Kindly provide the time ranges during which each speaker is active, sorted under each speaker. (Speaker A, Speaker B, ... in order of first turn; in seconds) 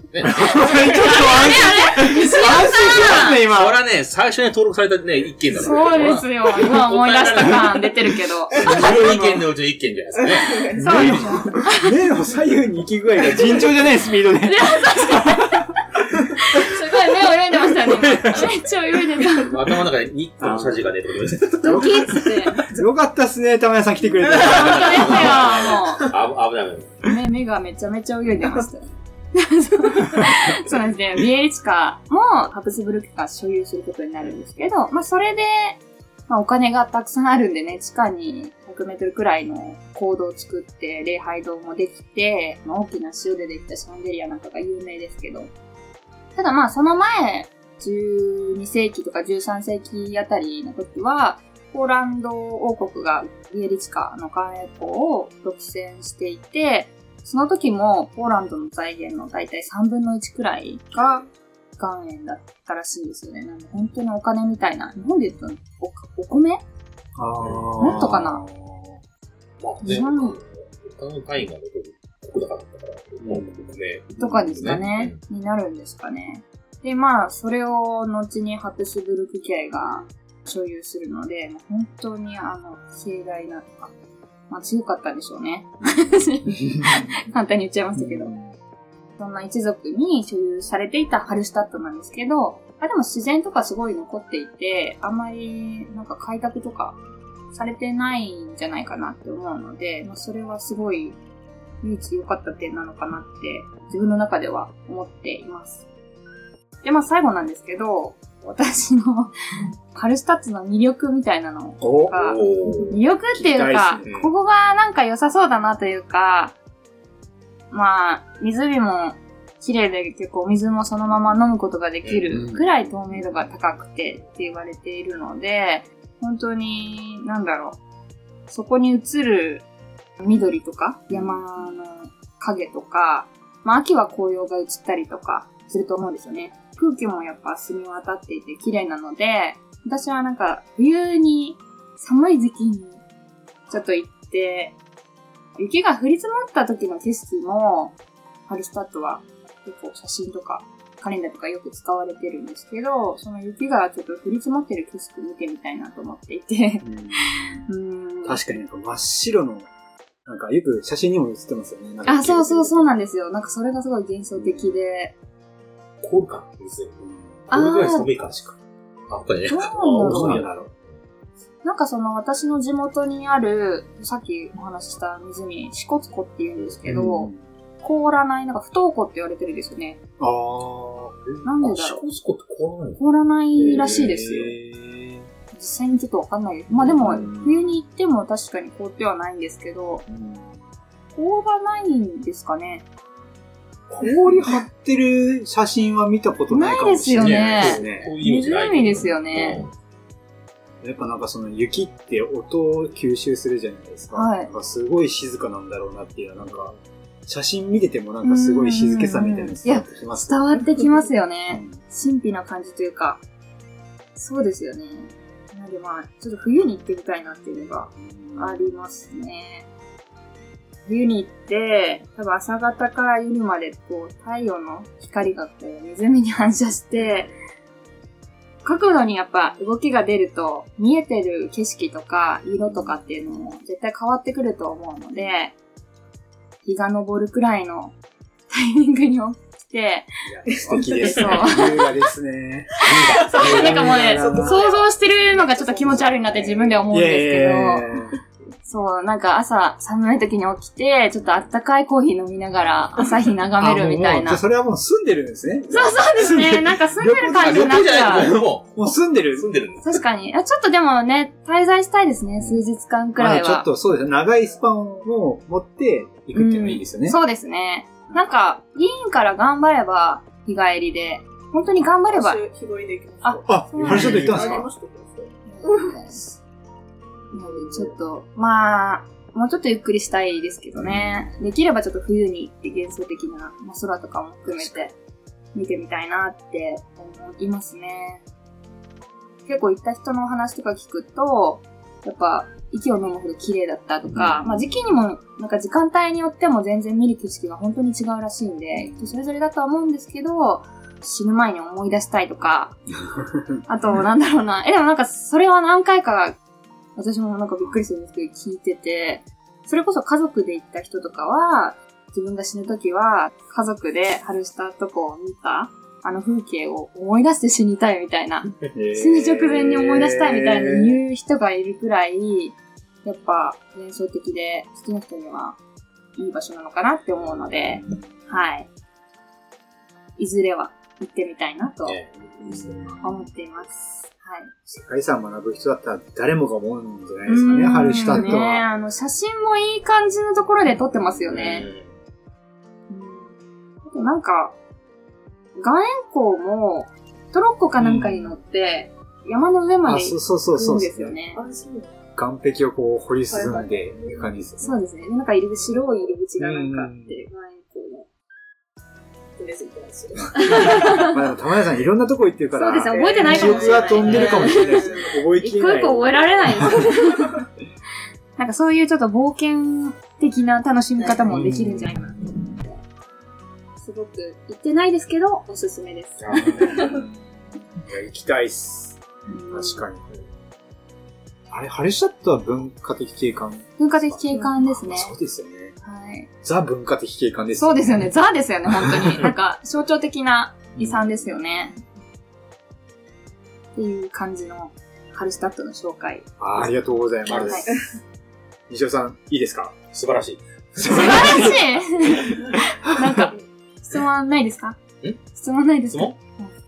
Speaker A: 0.1-1.1, 3.0-11.2, 19.5-22.3, 24.4-27.1, 67.4-68.1, 69.6-75.2, 112.1-113.0, 114.0-114.3, 122.0-122.4, 166.0-168.6, 169.1-171.0, 181.6-183.0, 183.6-184.1, 197.2-199.7, 206.4-206.8, 242.8-244.0, 257.4-260.0, 273.8-274.5, 331.8-332.9, 341.3-342.0, 364.0-364.5, 376.2-377.0, 397.3-397.6, 399.9-402.3
Speaker B: 0.2-3.8, 8.6-9.5, 10.8-16.6, 17.8-18.5, 20.4-20.9, 22.7-25.5, 67.2-69.0, 73.2-74.8, 86.6-87.1, 88.0-88.5, 111.8-114.1, 122.3-122.7, 131.1-131.7, 156.8-157.7, 158.2-159.7, 160.2-162.9, 164.4-164.8, 167.0-167.4, 170.0-170.7, 176.9-177.5, 180.2-181.5, 183.7-185.3, 186.8-187.6, 190.1-190.7, 193.9-198.1, 200.8-206.8, 207.3-210.6, 211.5-211.8, 217.9-218.8, 240.3-244.7, 245.9-246.2, 246.9-248.2, 253.6-259.5, 263.2-267.2, 273.5-274.7, 280.8-281.1, 284.5-284.8, 294.1-294.7, 298.8-299.2, 303.0-304.0, 318.7-321.0, 327.6-328.0, 332.4-333.2, 334.7-338.7, 347.8-348.4, 349.8-351.2, 352.2-354.8, 356.4-357.2, 360.1-366.7, 371.3-371.9, 376.3-380.1, 381.5-385.8, 386.4-388.1, 388.7-389.2, 390.8-391.2, 396.4-397.7, 398.7-399.8, 400.8-403.3
Speaker C: 0.4-2.8, 10.2-11.6, 240.5-241.9, 243.1-246.8, 272.1-276.2, 277.3-278.0, 351.3-351.9, 353.3-354.3, 359.4-361.1, 362.9-365.2, 366.7-367.3, 371.0-371.3, 397.3-398.0
Speaker D: 1.0-3.5, 5.5-8.6, 10.8-11.9, 14.4-15.7, 16.4-19.6, 21.6-22.6, 24.4-26.1, 27.1-45.5, 46.4-61.3, 61.8-66.6, 67.8-68.4, 69.8-70.4, 74.2-83.9, 84.5-88.3, 89.2-97.0, 97.5-101.2, 101.8-105.8, 106.8-109.3, 109.9-116.5, 117.7-127.8, 128.5-129.7, 130.2-143.0, 143.7-144.8, 145.6-147.9, 148.5-158.4, 162.1-165.2, 167.5-168.1, 169.5-170.4, 171.6-180.0, 181.4-182.0, 183.0-184.6, 185.5-190.1, 191.1-192.9, 196.5-199.6, 204.1-204.5, 208.2-213.2, 214.2-219.7, 220.8-227.3, 228.6-235.6, 236.7-237.9, 238.5-240.1, 240.9-241.8, 243.0-247.9, 248.7-254.4, 255.7-258.4, 259.8-263.7, 266.3-272.4, 273.2-274.6, 275.5-276.2, 277.3-284.9, 285.5-288.2, 289.5-302.8, 303.7-306.4, 307.0-325.6, 326.1-328.7, 330.2-332.0, 333.0-334.5, 337.3-341.7, 342.9-344.6, 345.6-351.4, 354.6-358.1, 360.4-361.2, 362.5-367.3, 368.4-372.7, 373.8-376.6, 379.3-379.9, 383.8-385.1, 385.8-386.3, 387.6-391.8, 393.8-396.3, 397.3-397.7, 400.9-404.8, 405.3-406.5